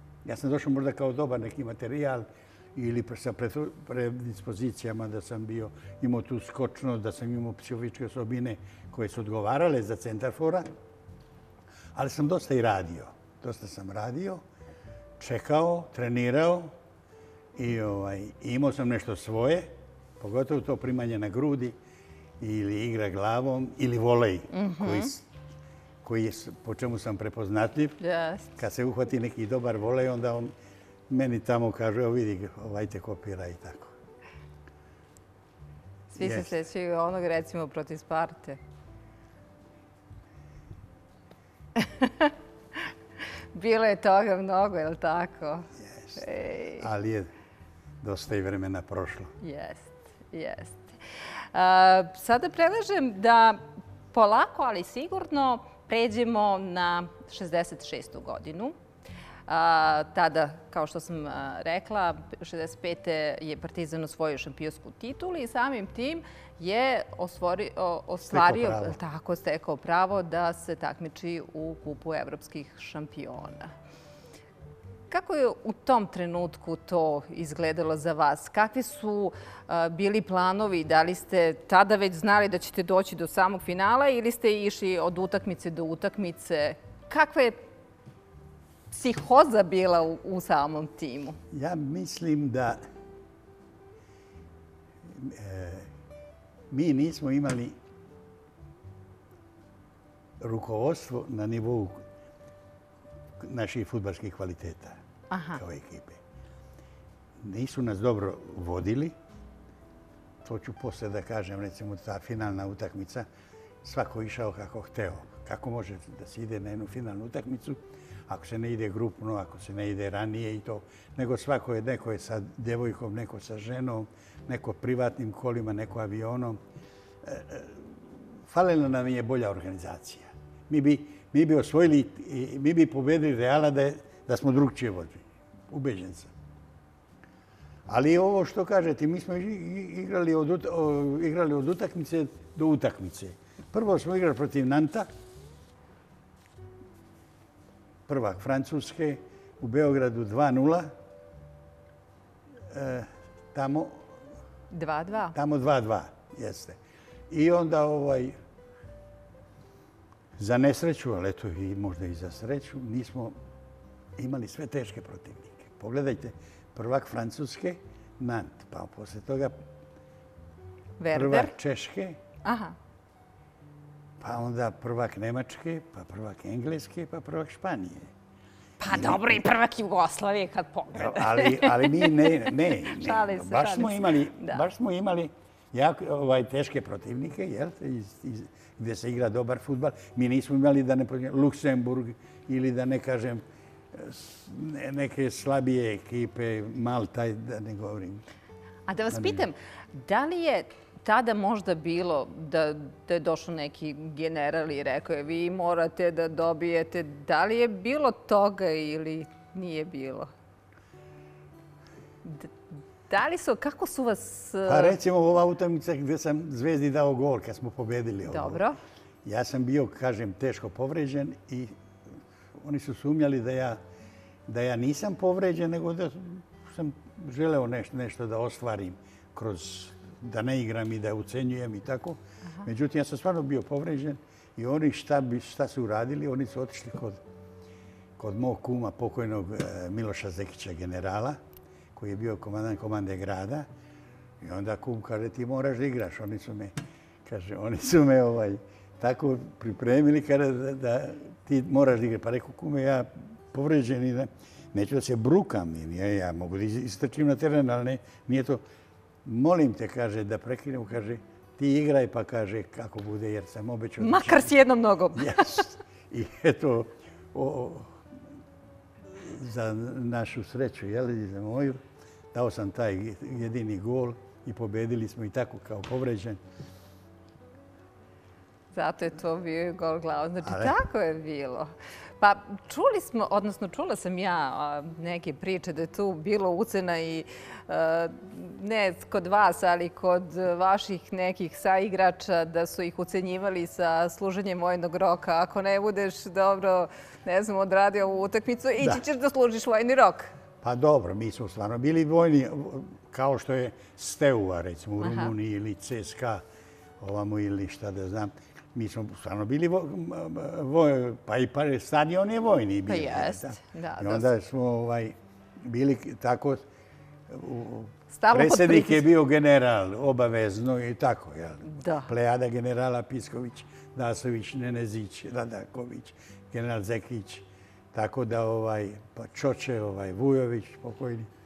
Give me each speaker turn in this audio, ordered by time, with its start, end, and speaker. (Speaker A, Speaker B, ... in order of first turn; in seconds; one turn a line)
Speaker A: 0.2-10.7
Speaker A: 11.9-14.4
Speaker A: 15.2-16.8
Speaker A: 17.6-21.8
Speaker A: 22.4-25.3
Speaker B: 24.5-25.1
Speaker A: 26.0-28.0
Speaker B: 28.0-28.5
Speaker A: 28.6-30.5
Speaker A: 31.1-34.0
Speaker B: 36.1-38.6
Speaker A: 36.2-36.5
Speaker B: 41.8-42.3
Speaker B: 43.5-46.9
Speaker A: 45.8-47.3
Speaker A: 48.0-49.3
Speaker B: 49.4-50.9
Speaker B: 51.5-53.6
Speaker B: 54.1-58.8
Speaker B: 59.5-73.7
Speaker A: 68.2-69.0
Speaker B: 75.1-87.6
Speaker B: 88.9-91.4
Speaker A: 91.5-92.8
Speaker A: 95.0-95.9
Speaker A: 96.7-97.8
Speaker A: 100.4-102.1
Speaker A: 103.4-105.0
Speaker B: 105.3-105.6
Speaker A: 105.6-106.2
Speaker A: 107.4-109.2
Speaker A: 110.4-113.3
Speaker A: 113.8-126.6
Speaker A: 127.2-136.3
Speaker A: 137.9-145.1
Speaker A: 148.1-150.9
Speaker A: 152.7-154.2
Speaker B: 154.7-155.3
Speaker A: 155.3-156.8
Speaker A: 157.3-158.4
Speaker A: 160.4-163.4
Speaker A: 164.2-169.6
Speaker B: 171.0-171.5
Speaker A: 171.1-172.2
Speaker B: 172.4-172.8
Speaker A: 174.2-178.1
Speaker B: 178.8-184.6
Speaker A: 178.9-179.4
Speaker A: 180.9-198.2
Speaker B: 198.9-210.3
Speaker A: 199.1-199.5
Speaker B: 212.2-212.5
Speaker B: 213.1-215.0
Speaker A: 214.7-218.6
Speaker B: 218.3-218.8
Speaker A: 219.2-221.8
Speaker A: 222.6-223.8
Speaker A: 224.5-237.2
Speaker A: 238.2-241.4
Speaker A: 241.9-243.7
Speaker A: 244.4-258.6
Speaker A: 259.2-264.5
Speaker B: 264.0-265.7
Speaker A: 265.1-268.0
Speaker A: 269.1-276.4
Speaker B: 278.7-300.3
Speaker A: 280.4-280.8
Speaker A: 300.6-306.4
Speaker B: 305.0-305.3
Speaker A: 307.0-316.6
Speaker B: 312.9-314.3
Speaker A: 317.3-331.3
Speaker B: 318.1-319.0
Speaker B: 321.7-322.1